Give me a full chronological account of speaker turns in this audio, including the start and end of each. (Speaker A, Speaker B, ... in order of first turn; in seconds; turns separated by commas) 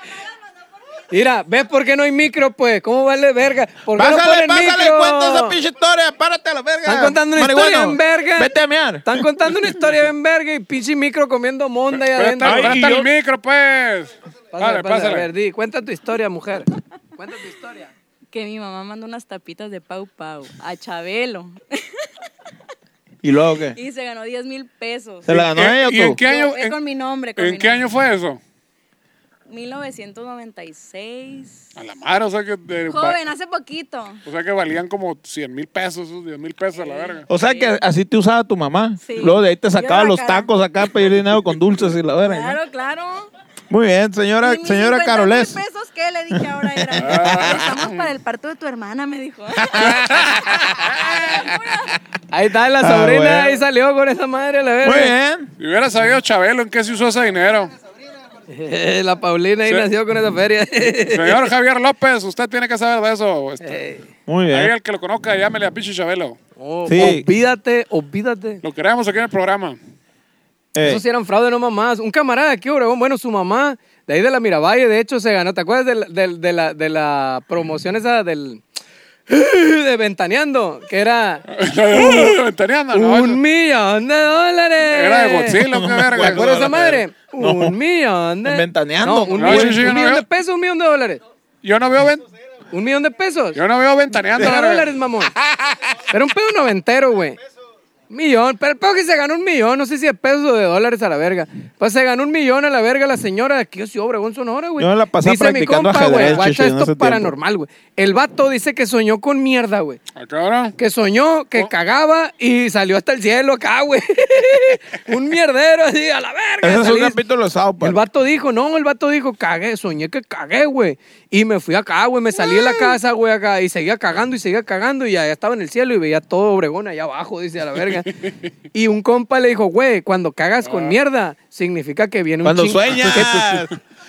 Speaker A: 1.1-5.6, Speaker B: 3.9-9.2, Speaker A: 6.8-8.5, Speaker A: 9.0-12.8, Speaker C: 11.9-15.3, Speaker B: 12.4-13.1, Speaker A: 14.5-17.9, Speaker D: 18.3-21.8, Speaker B: 23.2-23.8, Speaker D: 23.7-25.5, Speaker B: 25.2-26.2, Speaker C: 25.3-26.8, Speaker D: 26.0-27.8, Speaker C: 27.4-28.4, Speaker D: 29.5-31.7, Speaker C: 31.8-33.2, Speaker D: 32.9-34.2, Speaker C: 34.2-37.2, Speaker D: 36.8-37.8, Speaker B: 37.3-42.6, Speaker D: 39.0-41.1, Speaker D: 42.2-43.3, Speaker B: 43.7-45.6, Speaker D: 44.4-52.0, Speaker B: 46.3-47.6, Speaker C: 46.9-48.1, Speaker B: 49.6-50.9, Speaker A: 52.3-55.1, Speaker B: 52.8-53.6, Speaker B: 54.8-55.5, Speaker C: 55.6-57.7, Speaker A: 58.5-61.5, Speaker C: 61.1-63.8, Speaker A: 63.6-64.0, Speaker B: 64.3-64.7, Speaker C: 64.5-66.4, Speaker A: 66.6-68.6, Speaker B: 66.8-67.3, Speaker C: 68.6-69.8, Speaker B: 70.7-71.0, Speaker A: 70.8-78.6, Speaker A: 79.3-82.4, Speaker C: 81.5-83.4, Speaker A: 82.9-85.6, Speaker C: 84.9-86.7, Speaker B: 85.6-87.8, Speaker A: 86.2-91.2, Speaker B: 88.4-89.9, Speaker C: 89.3-90.2, Speaker C: 91.6-92.2, Speaker A: 92.7-93.6, Speaker C: 93.5-94.9, Speaker A: 94.3-95.3, Speaker A: 96.1-97.4, Speaker A: 98.1-110.0, Speaker B: 104.8-107.3, Speaker C: 106.2-106.4, Speaker C: 110.1-110.8, Speaker A: 110.8-117.2, Speaker B: 116.6-118.0, Speaker A: 117.8-128.1, Speaker C: 128.1-128.3, Speaker A: 128.7-133.3, Speaker C: 130.6-130.9, Speaker B: 132.4-133.7, Speaker C: 132.9-133.7